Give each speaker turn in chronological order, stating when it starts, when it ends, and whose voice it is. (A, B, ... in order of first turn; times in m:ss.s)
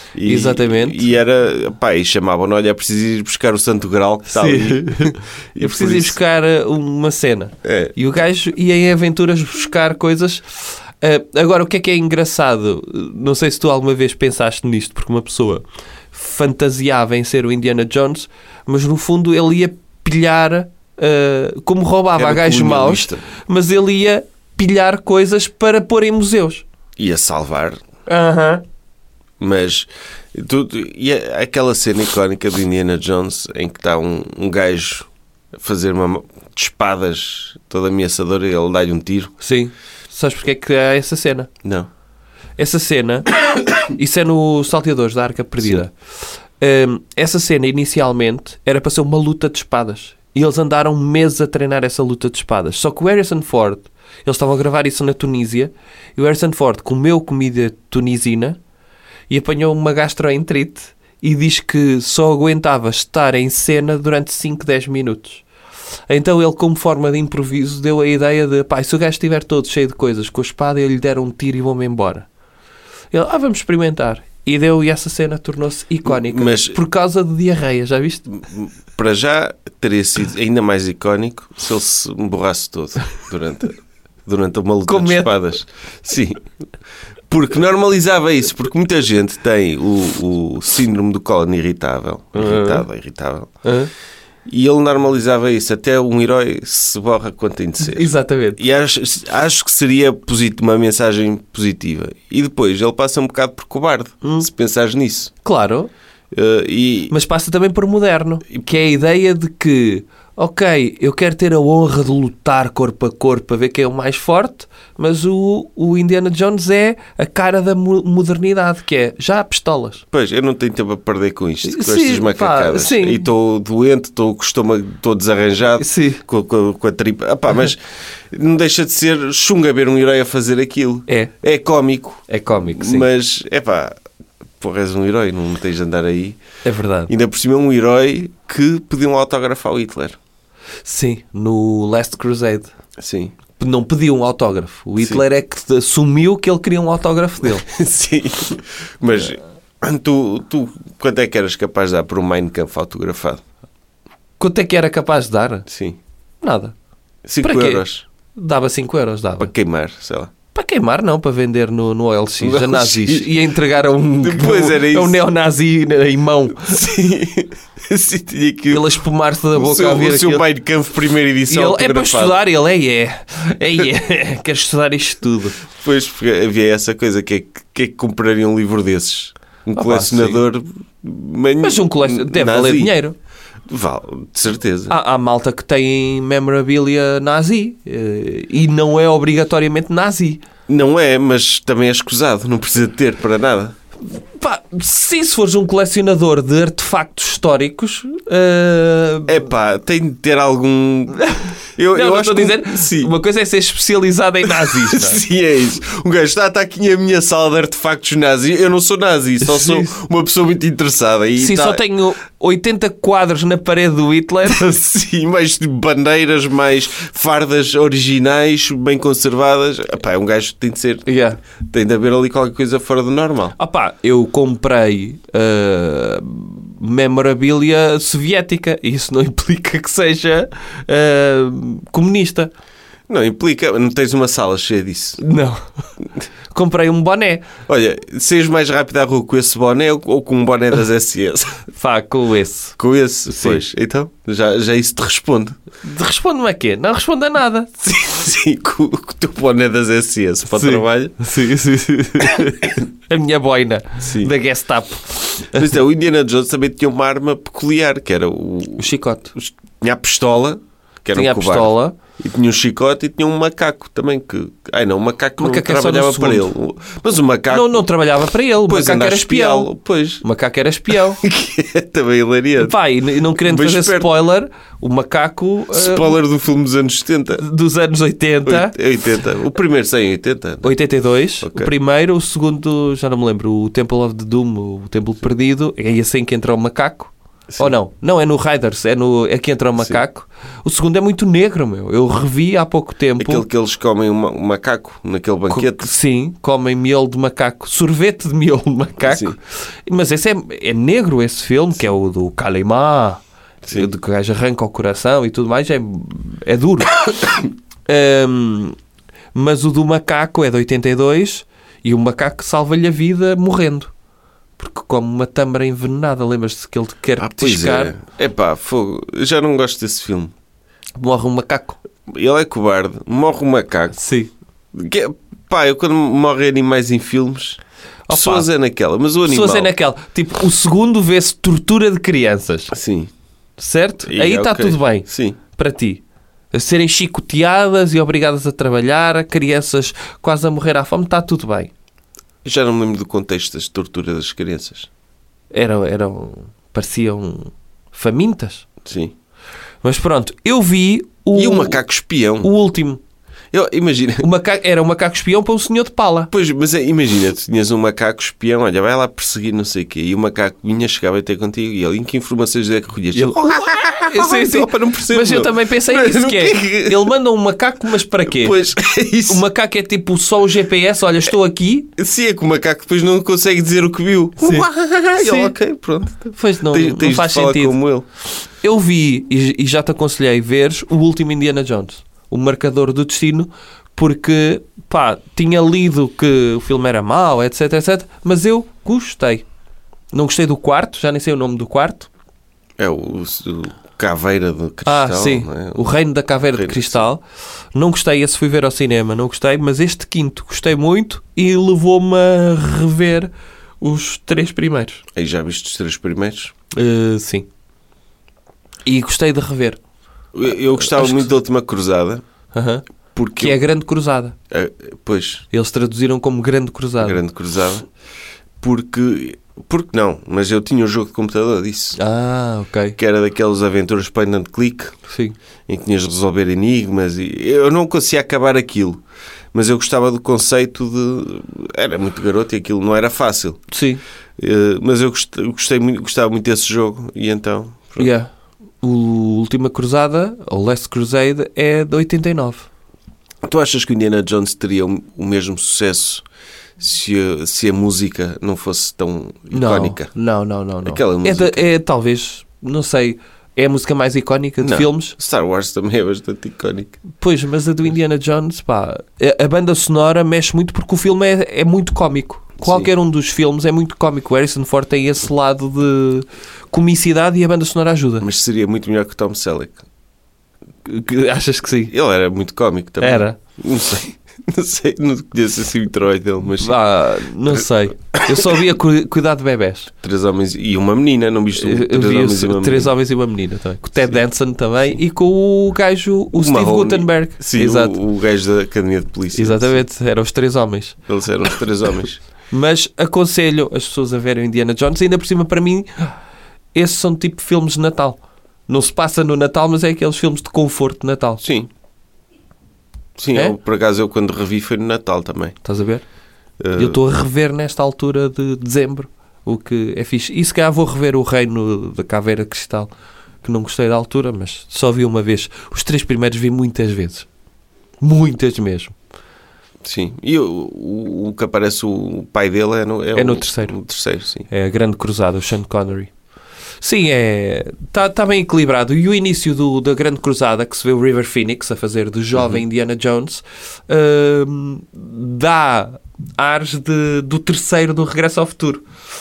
0:00.1-0:06.2 A
0:00.2-0:01.1 B
0:04.3-0:26.6 B
0:07.6-0:07.9 A
0:22.2-0:23.2 A
0:27.0-0:27.8 A
0:28.1-0:28.6 B
0:29.4-0:39.3 A
0:39.4-0:41.5 B
0:42.6-0:45.9 B
0:46.6-0:58.6 B
0:59.3-1:05.4 B
1:06.1-1:12.3 B
1:13.1-1:18.3 B
1:16.0-1:16.8 A
1:18.5-1:26.4 A
1:24.9-1:25.3 B
1:27.3-1:33.5 A
1:32.3-1:32.8 B
1:33.6-1:33.9 B
1:34.5-1:45.3 A
1:37.8-1:38.6 B
1:45.4-1:45.9 B
1:46.3-1:47.1 A
1:47.1-2:00.0 B
2:00.1-2:07.8 A
2:01.6-2:03.2 B
2:05.8-2:06.2 B
2:08.3-2:13.9 A
2:11.1-2:11.3 B
2:12.3-2:13.1 B
2:14.6-2:16.4 A
2:16.6-2:17.1 B
2:17.1-2:20.2 A
2:20.8-2:22.7 B
2:23.0-2:23.4 A
2:23.6-2:27.6 B
2:27.5-2:33.4 A
2:34.4-2:35.6 B
2:35.7-2:36.0 A
2:36.4-2:36.7 B
2:37.2-2:38.0 A
2:37.4-2:37.8 B
2:38.3-2:39.5 B
2:39.4-2:40.3 A
2:40.5-2:46.8 B
2:42.4-2:43.3 A
2:44.2-2:45.2 A
2:46.6-2:48.8 A
2:48.7-2:50.4 B
2:49.5-2:52.4 A
2:51.5-2:55.6 B
2:55.8-3:02.9 A
2:59.7-3:00.4 B
3:01.6-3:03.2 B
3:03.7-3:04.9 A
3:04.9-3:10.4 B
3:10.7-3:13.7 A
3:14.1-3:19.5 B
3:19.3-3:23.1 A
3:21.1-3:25.2 B
3:24.4-3:31.8 A
3:29.4-3:29.9 B
3:31.4-3:34.8 B
3:34.5-3:41.1 A
3:41.0-3:41.4 B
3:41.6-3:43.5 A
3:43.6-3:52.5 B
3:53.1-3:55.2 A
3:55.2-3:55.6 B
3:56.5-3:57.5 B
3:57.7-4:01.6 A
4:01.7-4:02.8 B
4:02.8-4:05.6 A
4:03.3-4:03.6 B
4:05.8-4:07.8 B
4:07.8-4:11.2 A
4:10.5-4:15.7 B
4:14.0-4:14.3 A
4:15.5-4:27.8 A
4:18.8-4:19.3 B
4:21.1-4:22.0 B
4:25.4-4:26.5 B
4:27.5-4:29.7 B
4:28.7-4:30.2 A
4:30.2-4:31.2 B
4:31.2-4:32.7 A
4:32.6-4:36.2 B
4:33.3-4:34.1 A
4:35.7-4:37.4 A
4:37.4-4:38.7 B
4:38.4-4:40.7 A
4:40.6-4:53.4 B
4:41.4-4:41.7 A
4:53.2-4:55.9 A
4:55.5-5:08.8 B
4:59.0-4:59.4 A
5:09.3-5:13.9 B
5:14.6-5:17.9 B
5:17.2-5:20.3 A
5:21.0-5:21.8 B
5:22.1-5:24.0 A
5:23.9-5:24.3 B
5:24.7-5:27.6 A
5:28.1-5:28.5 B
5:28.1-5:29.7 A
5:29.2-5:32.7 B
5:32.7-5:33.1 A
5:33.6-5:41.7 B
5:34.1-5:35.4 A
5:42.4-5:44.9 A
5:45.5-5:48.6 B
5:48.8-5:49.1 A
5:49.8-5:51.8 B
5:51.3-5:52.5 A
5:52.4-5:53.0 B
5:53.5-5:54.3 A
5:54.2-5:56.3 B
5:56.3-6:07.1 A
6:03.1-6:08.7 B
6:08.3-6:09.4 A
6:09.2-6:11.9 B
6:12.0-6:18.0 A
6:14.4-6:15.5 B
6:16.3-6:17.8 B
6:18.6-6:29.4 B
6:30.1-6:32.1 B
6:32.8-6:35.9 A
6:34.8-6:37.2 B
6:36.5-6:37.0 A
6:37.7-6:45.0 B
6:45.2-6:46.5 A
6:46.7-6:47.5 B
6:48.8-6:49.8 B
6:50.3-6:52.2 A
6:50.8-6:51.3 B
6:52.5-6:52.8 B
6:53.1-6:53.6 A
6:53.4-6:54.3 B
6:54.5-6:55.4 A
6:55.5-6:57.2 B
6:57.0-6:57.8 A
6:58.6-7:02.0 A
7:02.0-7:03.0 B
7:03.0-7:04.9 A
7:05.1-7:05.3 B
7:05.7-7:09.0 A
7:09.5-7:13.6 A
7:13.7-7:14.0 B
7:14.4-7:18.1 A
7:18.0-7:18.3 B
7:18.8-7:22.7 B
7:23.4-7:26.2 A
7:26.8-7:30.1 A
7:29.5-7:35.1 B
7:30.8-7:31.6 A
7:34.6-7:37.0 A
7:37.2-7:48.2 B
7:42.6-7:42.9 A
7:48.2-7:49.8 A
7:50.8-7:51.9 B
7:51.9-7:56.8 A
7:53.0-7:53.4 B
7:56.6-7:59.9 B
7:58.1-7:58.6 A
8:00.0-8:02.9 A
8:01.5-8:08.0 B
8:06.4-8:09.8 A
8:09.3-8:11.0 B
8:11.1-8:12.2 A
8:12.5-8:16.1 B
8:16.7-8:21.4 B
8:21.4-8:21.7 A
8:23.2-8:25.6 A
8:25.6-8:26.0 B
8:26.6-8:27.0 A
8:26.8-8:32.9 B
8:33.4-8:37.3 B
8:38.0-8:38.9 B
8:39.8-8:44.5 A
8:43.1-8:43.7 B
8:44.5-8:46.1 B
8:46.8-8:58.8 B